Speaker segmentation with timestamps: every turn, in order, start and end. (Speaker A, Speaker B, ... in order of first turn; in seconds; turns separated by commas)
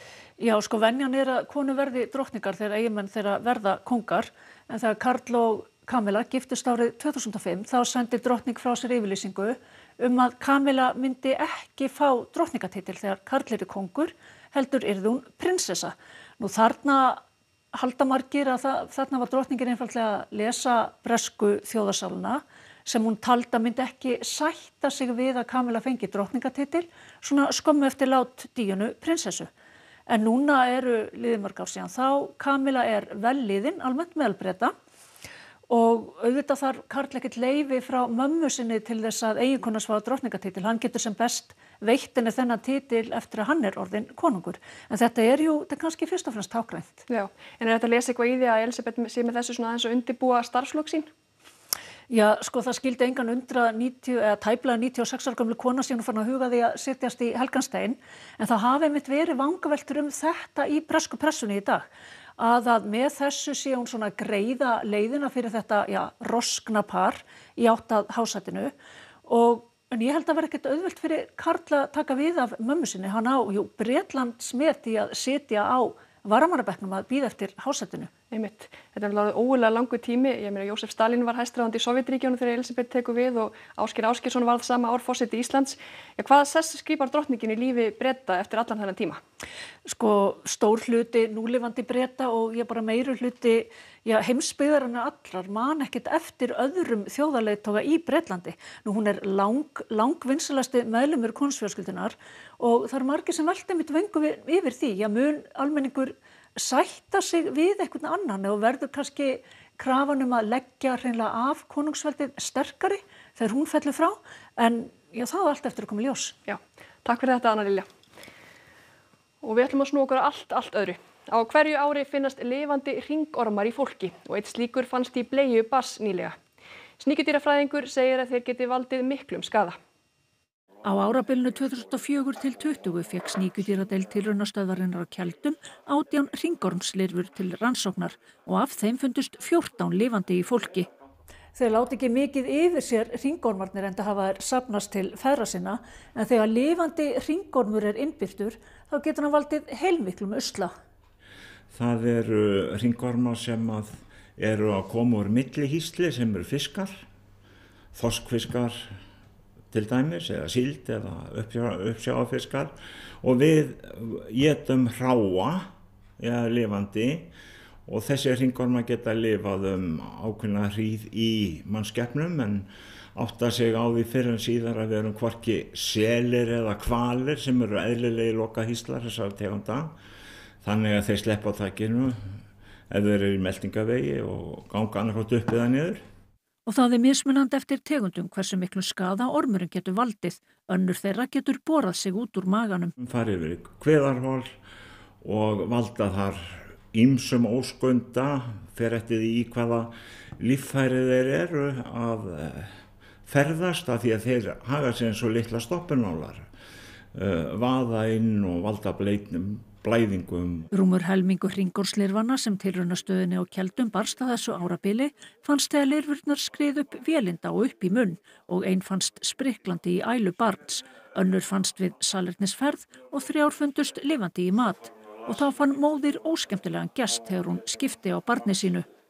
Speaker A: 0.4-29.5, Speaker A: 30.1-34.7, Speaker A: 35.7-47.0, Speaker B: 47.1-51.1, Speaker A: 52.1-68.7, Speaker A: 69.3-78.1, Speaker B: 78.3-89.2, Speaker A: 89.8-116.4, Speaker B: 116.5-117.9, Speaker B: 119.4-126.4, Speaker B: 127.0-129.8, Speaker A: 130.8-140.9, Speaker A: 141.6-150.7, Speaker C: 151.7-157.1, Speaker C: 157.9-159.0, Speaker C: 159.7-165.7, Speaker C: 166.2-167.3, Speaker C: 167.9-180.0, Speaker C: 180.6-186.0, Speaker A: 186.7-192.9, Speaker C: 193.0-194.6, Speaker C: 195.2-206.5, Speaker C: 207.2-210.7, Speaker A: 210.7-228.9